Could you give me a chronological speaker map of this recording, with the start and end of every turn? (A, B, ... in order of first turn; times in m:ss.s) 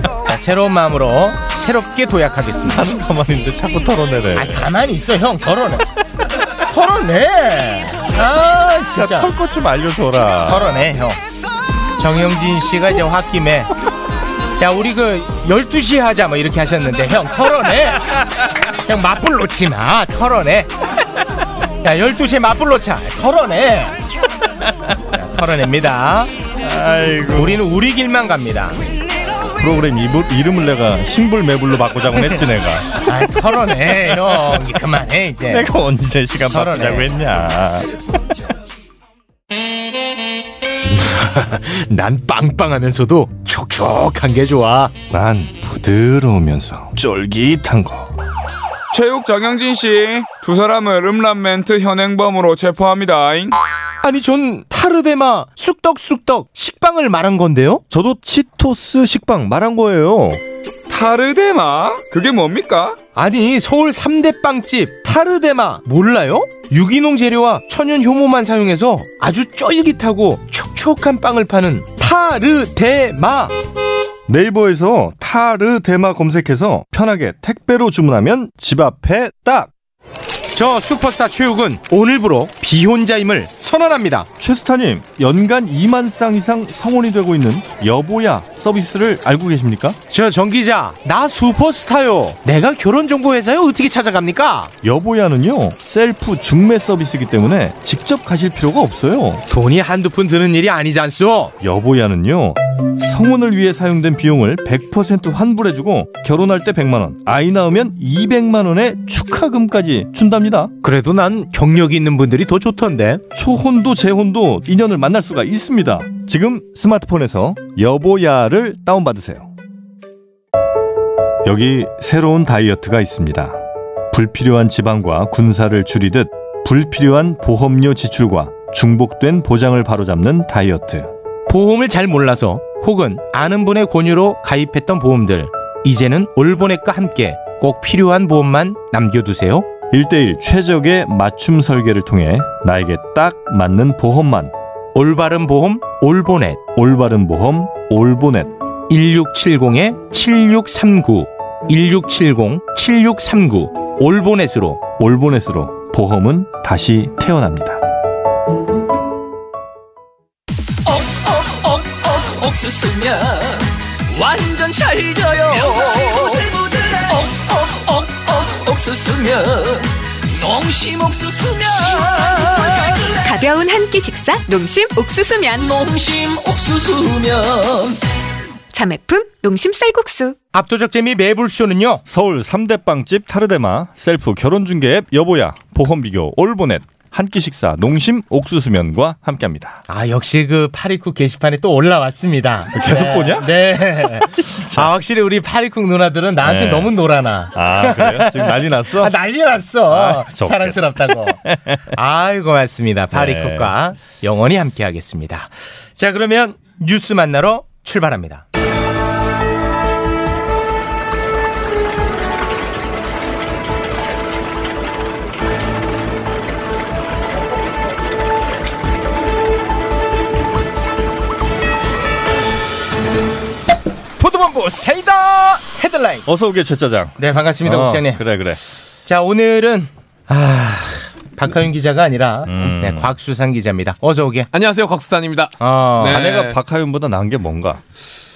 0:00.2-0:02.9 A
0:02.7-0:04.7 B
0:04.3-0:05.8 A
0:06.6-0:09.3 A
0:08.9-0:10.9 B
0:10.4-0:11.2 A
0:12.0-0:13.7 A
0:14.6-0:20.7 A
0:21.8-0:24.0 A
0:25.1-0:26.3 A
0:26.6-0:27.6 B
0:27.3-0:28.8 A
0:29.5-0:33.0 B
0:32.9-0:35.7 A
0:34.0-0:34.6 B
0:35.4-0:37.9 B
0:36.4-0:37.1 A
0:40.9-0:44.9 A
0:45.1-0:48.1 B
0:48.9-0:53.6 C
0:54.0-0:57.8 A
0:57.9-1:00.4 B
1:00.9-1:03.0 C
1:03.1-1:13.5 A
1:14.3-1:19.7 B
1:20.5-1:24.3 A
1:24.4-1:30.0 B
1:30.1-1:34.7 A
1:34.8-1:39.4 B
1:39.5-1:41.5 A
1:41.6-1:50.7 B
1:50.8-1:53.2 A
1:53.3-1:59.5 B
2:01.4-2:03.6 B
2:04.1-2:11.1 B
2:11.5-2:19.7 A
2:19.9-2:24.5 B
2:24.9-2:26.6 A
2:26.7-2:28.6 B
2:28.9-2:34.8 A
2:35.0-2:37.8 B
2:40.8-2:53.1 D
2:53.2-2:55.7 E
2:55.6-2:58.0 D
2:58.7-3:00.4 E
3:00.5-3:02.0 A
3:02.1-3:09.8 B
3:09.9-3:28.4 A
3:12.7-3:14.9 B
3:16.4-3:16.9 B
3:17.5-3:19.2 B
3:19.9-3:21.8 B
3:23.1-3:23.7 B
3:44.2-3:46.3 A
3:46.2-3:48.6 B
3:47.2-3:48.2 A
3:49.0-3:54.5 A
3:52.4-3:53.1 B
3:54.5-3:56.6 F
3:55.6-3:56.2 A
3:56.0-3:57.8 B